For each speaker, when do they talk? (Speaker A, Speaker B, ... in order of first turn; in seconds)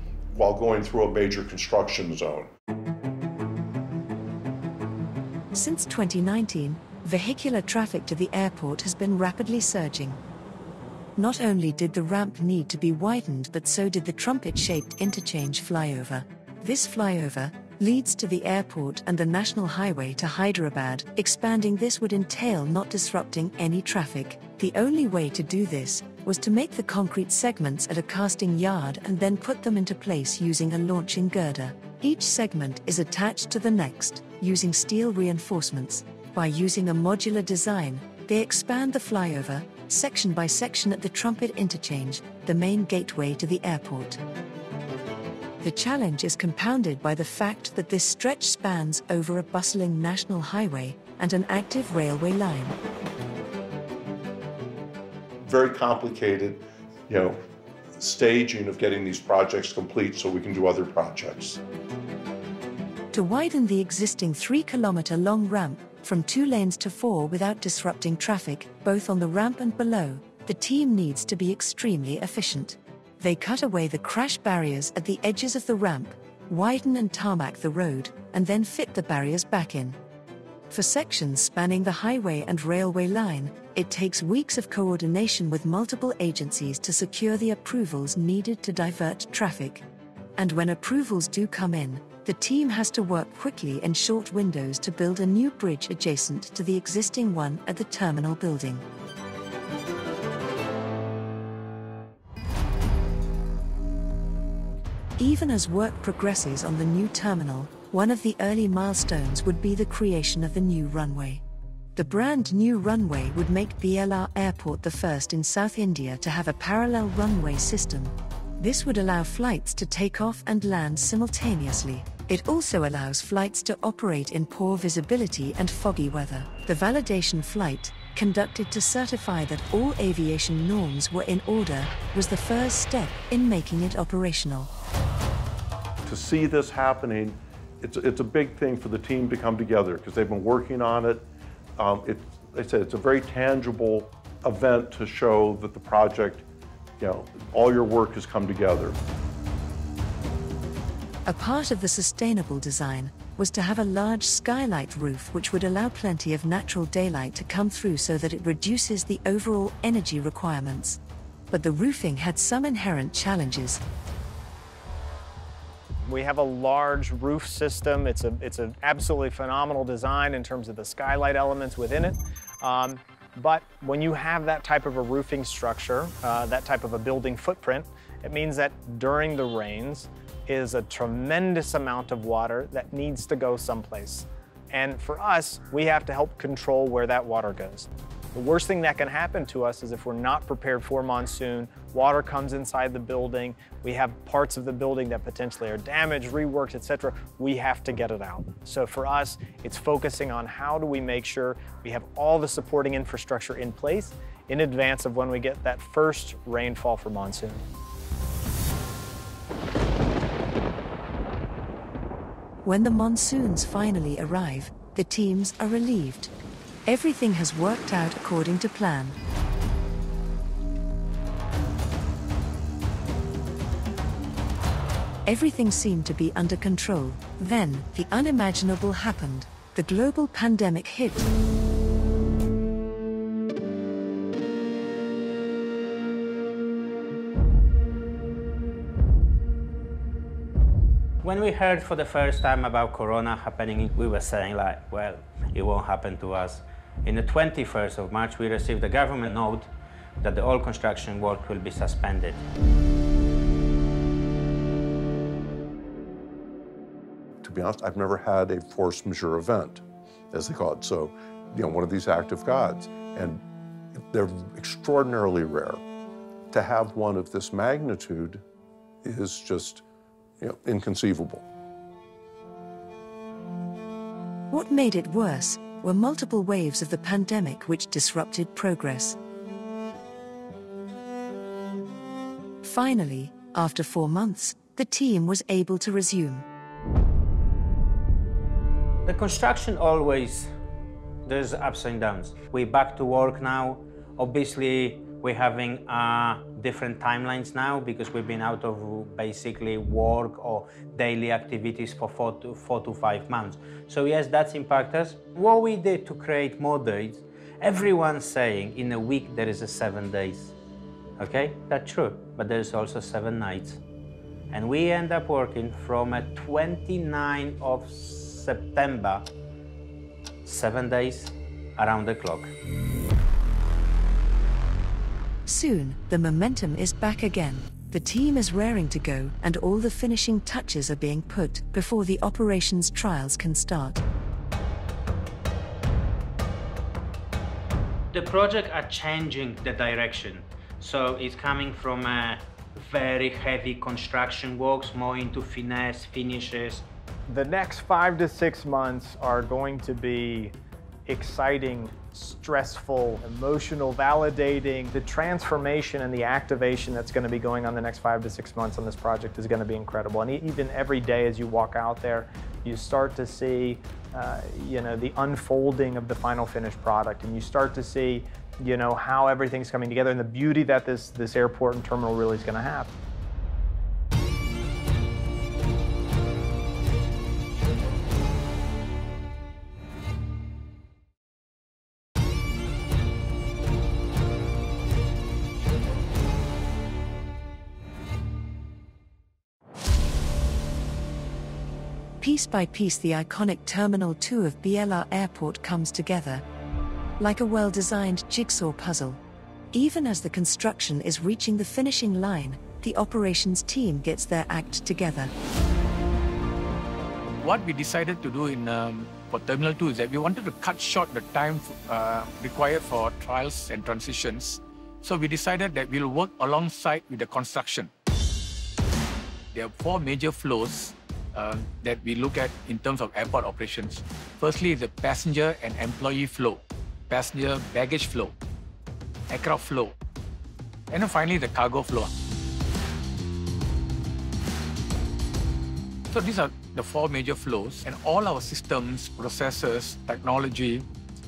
Speaker A: 0.3-2.5, 55.4-57.4, 58.0-61.6, 136.1-146.4, 147.0-149.0, 257.4-263.4, 263.9-265.8, 266.5-268.4, 269.0-269.8, 270.4-271.5
Speaker B: 5.5-10.2, 11.2-44.2, 45.6-52.8, 63.1-80.0, 80.7-89.8, 90.4-98.9, 105.2-111.4, 112.0-134.7, 151.3-161.0, 161.5-163.8, 212.7-216.3, 216.9-219.2, 225.2-231.3, 274.5-279.2, 282.6-286.5, 325.5-334.0, 392.2-396.4, 397.2-399.2, 399.7-405.3
Speaker C: 166.1-207.7, 347.3-350.5, 351.1-372.9
Speaker D: 241.2-252.4, 289.1-290.5, 291.3-310.6, 311.2-313.8, 314.5-319.3, 320.4-322.5, 338.1-346.9
Speaker E: 407.4-417.9, 419.5-428.3, 429.3-429.9, 430.9-432.1, 436.1-440.9